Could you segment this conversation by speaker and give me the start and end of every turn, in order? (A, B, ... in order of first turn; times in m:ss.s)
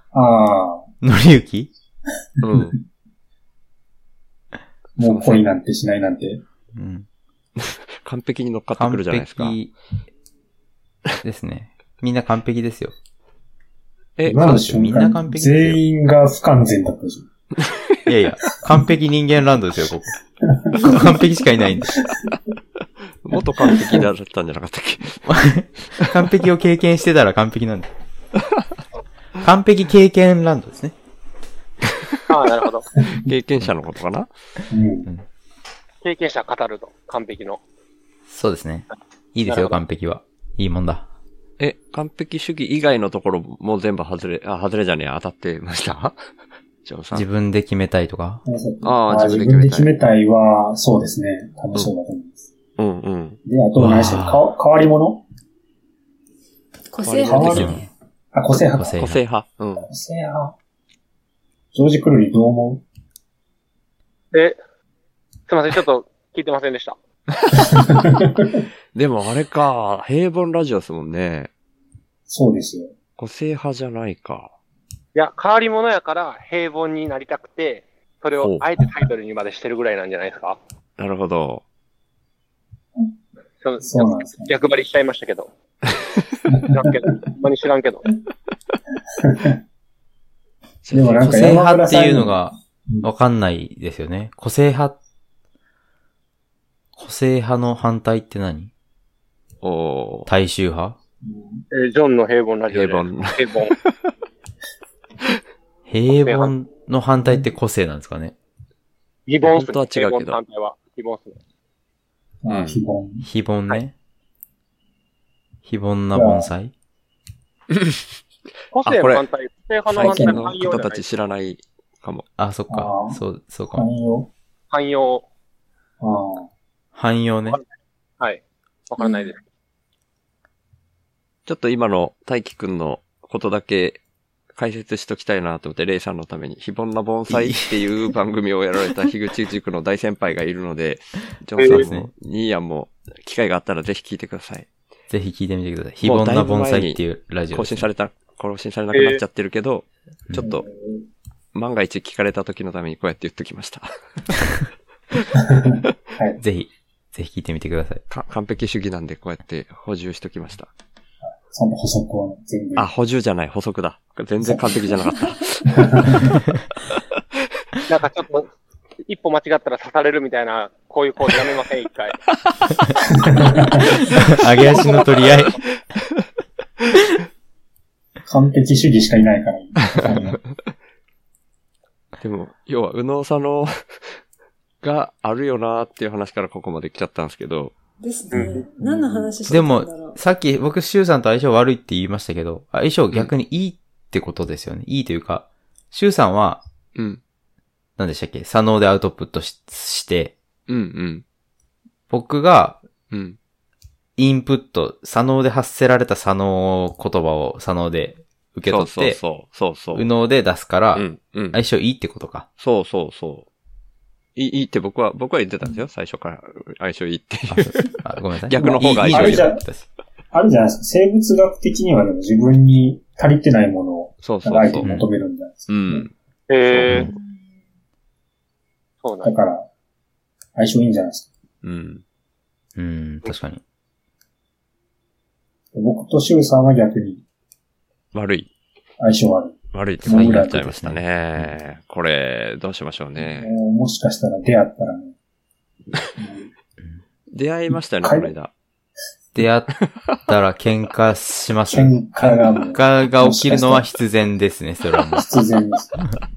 0:00.1-0:00.9 A
0:01.0-0:01.7 B
0:02.4-0:02.8 C
0:02.4-0:02.7 A
0:05.0-0:06.4 A
0:05.0-0:05.5 C
0:06.7-0:07.1 B
0:07.6-0:09.6 C
0:08.8-0:09.7 B
0:11.2-0:12.9 B
0:14.2-0:14.6 C
0:14.3-0:17.3 A
0:14.3-0:15.8 B
0:18.1-0:20.2 B
0:20.6-0:22.2 A
0:20.7-0:22.0 B
0:23.2-0:25.2 C
0:23.4-0:24.1 A
0:25.2-0:27.9 B
0:29.4-0:31.0 B
0:32.3-0:32.9 D
0:33.2-0:34.3 C
0:34.7-0:35.1 A
0:36.0-0:37.6 D
0:38.3-0:41.1 B
0:39.5-0:39.8 D
0:41.6-0:46.2 C
0:46.8-0:47.3 C
0:47.1-0:48.4 B
0:48.4-0:52.5 A
0:48.8-0:49.9 C
0:52.8-0:53.4 C
0:53.4-0:55.2 A
0:53.8-0:54.5 B
0:56.9-0:57.9 E
0:57.0-0:57.8 C
0:57.2-0:59.0 A
0:57.6-0:57.8 B
0:58.7-0:59.2 B
0:59.0-0:59.9 C
0:59.9-1:00.5 A
1:01.7-1:02.8 A
1:04.3-1:04.6 D
1:05.5-1:07.0 D
1:07.6-1:08.6 A
1:09.0-1:11.5 C
1:12.3-1:12.9 A
1:13.2-1:14.5 C
1:15.2-1:20.6 D
1:18.4-1:18.7 C
1:21.0-1:21.6 C
1:23.6-1:25.5 D
1:23.8-1:24.5 A
1:26.5-1:26.8 A
1:26.7-1:28.1 D
1:29.2-1:29.5 A
1:30.8-1:31.6 C
1:30.9-1:33.1 A
1:31.2-1:35.0 B
1:37.0-1:38.7 B
1:39.6-1:40.3 C
1:40.3-1:41.0 B
1:41.2-1:41.6 A
1:41.7-1:43.8 D
1:42.7-1:43.5 C
1:45.9-1:48.4 B
1:46.2-1:46.5 D
1:49.3-1:51.4 D
1:49.4-1:50.4 C
1:52.4-1:53.3 A
1:52.5-1:52.8 C
1:53.2-1:53.9 B
1:55.7-1:56.7 B
1:56.1-1:56.5 A
1:57.7-1:58.0 C
1:58.7-2:01.1 D
1:58.8-1:59.2 C
1:59.9-2:02.3 C
2:00.0-2:00.5 A
2:02.4-2:03.9 B
2:02.7-2:04.3 A
2:04.7-2:05.2 D
2:06.0-2:06.5 A
2:07.0-2:07.6 B
2:08.2-2:09.4 D
2:09.0-2:09.3 E
2:11.5-2:14.0 C
2:14.6-2:24.7 C
2:17.3-2:17.8 B
2:21.6-2:21.8 D
2:21.7-2:22.1 B
2:25.1-2:27.9 B
2:26.0-2:30.6 C
2:28.9-2:29.2 D
2:30.4-2:31.1 A
2:31.5-2:34.4 C
2:35.4-2:36.4 A
2:36.4-2:38.0 B
2:38.1-2:40.7 C
2:41.5-2:42.9 A
2:42.8-2:45.7 C
2:44.4-2:44.7 A
2:45.7-2:46.4 A
2:47.9-2:48.5 D
2:49.0-2:52.2 D
2:53.1-2:54.0 A
2:54.0-2:55.6 D
2:54.1-2:55.6 B
2:58.3-3:00.4 A
2:59.9-3:00.4 C
3:02.2-3:04.2 C
3:04.8-3:07.8 C
3:08.0-3:10.2 E
3:08.3-3:09.3 A
3:09.5-3:16.6 B
3:18.0-3:20.4 B
3:20.7-3:21.2 C
3:22.1-3:22.8 B
3:23.1-3:23.4 C
3:24.2-3:29.2 B
3:28.7-3:30.1 C
3:29.9-3:32.5 B
3:30.9-3:31.6 C
3:32.6-3:33.5 C
3:34.4-3:38.0 C
3:37.5-3:39.9 B
3:38.5-3:39.6 C
3:38.6-3:39.6 A
3:40.3-3:46.0 A
3:44.2-3:44.9 C
3:45.7-3:46.1 C
3:46.5-3:47.1 D
3:46.7-3:47.1 C
3:46.9-3:47.1 B
3:47.1-3:47.6 E
3:49.0-3:49.3 D
3:49.2-3:49.7 A
3:50.6-3:51.3 A
3:51.6-3:52.0 C
3:52.8-3:53.6 B
3:55.7-3:57.2 A
3:58.1-3:58.5 C
3:59.0-4:00.6 A
3:59.7-4:03.5 C
4:00.0-4:01.6 B
4:03.2-4:05.2 A
4:06.2-4:06.5 A
4:07.3-4:08.5 C
4:08.0-4:08.3 A
4:09.4-4:09.8 B
4:10.3-4:15.3 B
4:11.7-4:13.9 A
4:15.1-4:16.0 A